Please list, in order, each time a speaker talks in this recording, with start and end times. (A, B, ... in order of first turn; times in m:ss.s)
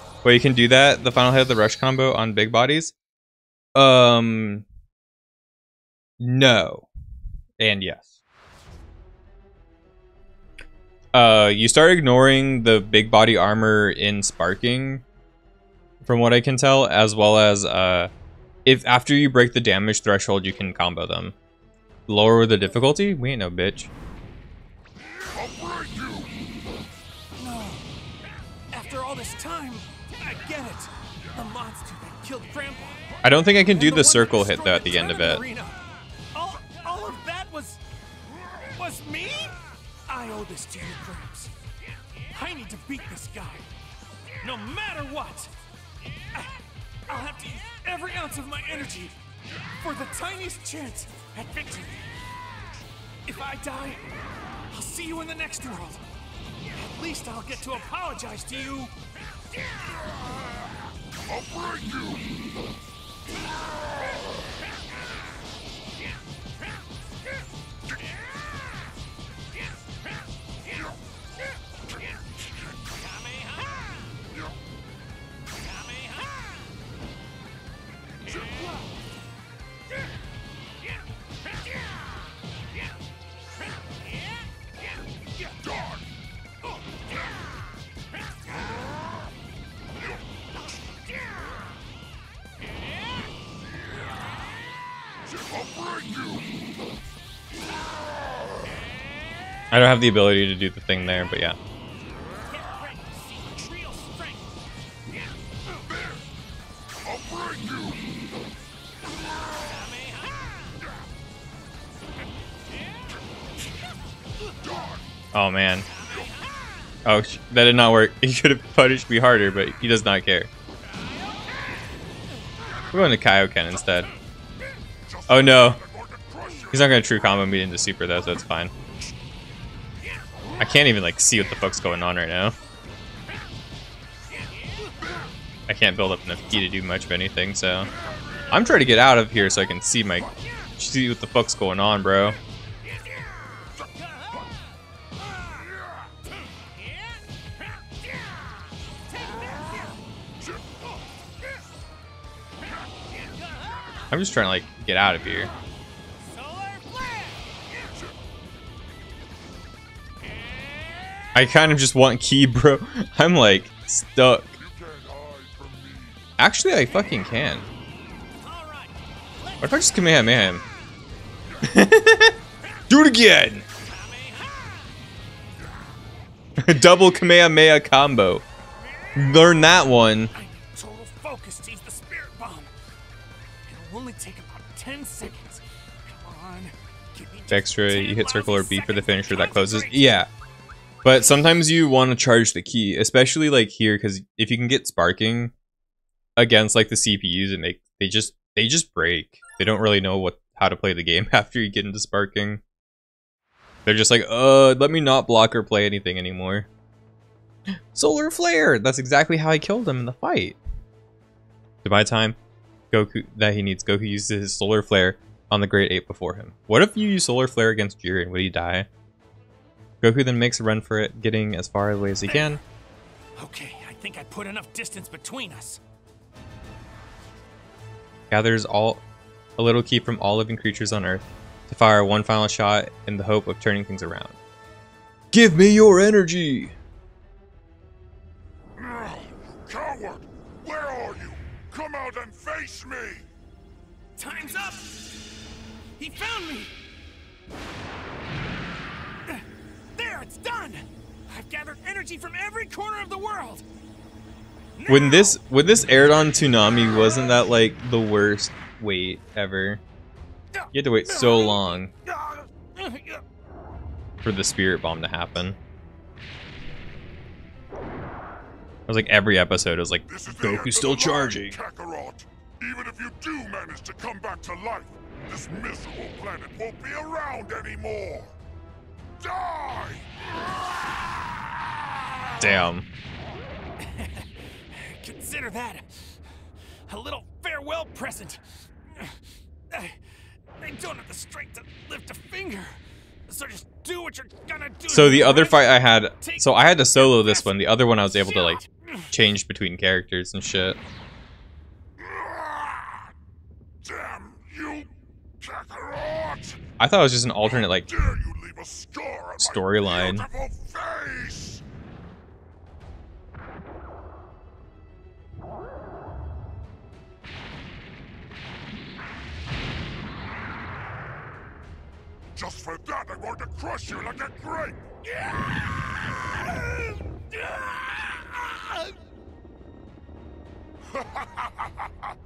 0:00.2-0:02.9 A
0:03.7-0:04.6 A
0:06.2-0:06.9 A
0:07.6-0:08.1 A
0:11.1-0:15.0 A
0:16.0-0:18.1 A
0:18.6-0:21.3 A
0:22.1-0:23.9 A
0:25.3-0:26.3 B
0:27.4-0:27.8 C
0:28.7-0:33.1 C
0:33.2-0:35.4 A
0:33.7-0:35.8 C
0:36.3-0:37.8 C
0:38.7-0:39.6 C
0:40.1-0:41.5 C
0:42.3-0:43.7 C
0:44.4-0:45.5 C
0:47.1-0:49.2 C
0:49.8-0:52.1 C
0:53.2-0:54.1 C
0:54.7-0:56.1 C
0:56.8-0:58.9 C
1:01.3-1:02.3 B
1:13.0-1:14.0 C
1:15.6-1:16.5 C
1:35.2-1:36.4 B
1:39.7-1:41.6 A
1:42.5-1:44.5 C
1:47.0-1:48.0 B
1:49.7-1:50.6 C
1:55.3-1:55.8 A
1:57.0-2:00.5 A
2:02.9-2:04.1 A
2:05.1-2:07.2 B
2:05.3-2:05.8 A
2:06.7-2:08.7 A
2:10.6-2:12.5 A
2:15.7-2:17.9 A
2:18.5-2:22.4 A
2:34.1-2:35.5 A
2:36.2-2:37.4 C
2:41.3-2:44.5 A
2:44.6-2:46.2 B
2:46.4-2:47.6 A
2:48.4-2:50.0 C
2:49.6-2:50.6 A
2:51.6-2:52.4 A
2:52.9-2:53.6 A
2:53.8-2:54.9 C
2:56.6-2:58.4 A
2:59.2-3:00.3 A
3:00.3-3:02.7 C
3:03.7-3:10.2 C
3:07.5-3:10.3 A
3:11.0-3:15.5 A
3:16.4-3:22.6 A
3:23.8-3:26.7 A
3:27.9-3:30.6 A
3:31.8-3:32.4 A
3:32.9-3:38.9 A
3:40.0-3:42.6 A
3:43.4-3:45.8 C
3:48.3-3:49.0 A
3:49.6-3:54.4 A
3:55.3-3:56.7 A
3:58.8-4:03.2 B
4:04.2-4:05.0 C
4:06.0-4:06.7 C
4:09.9-4:13.6 C
4:14.8-4:15.4 C
4:14.9-4:19.8 A
4:20.5-4:23.2 C
4:20.7-4:21.9 A
4:24.2-4:25.6 A
4:28.9-4:31.6 A
4:30.1-4:38.3 B
4:39.2-4:40.1 B
4:42.4-4:42.9 A
4:43.8-4:46.2 C
4:46.9-4:48.4 C
4:50.6-4:52.7 C
4:53.3-4:57.5 C
4:54.9-5:00.8 A
4:58.2-4:58.7 C
5:02.0-5:03.0 B
5:03.8-5:06.6 B
5:06.8-5:07.9 A
5:07.9-5:11.6 B
5:09.4-5:10.2 A
5:22.4-5:24.8 B
5:30.9-5:31.9 B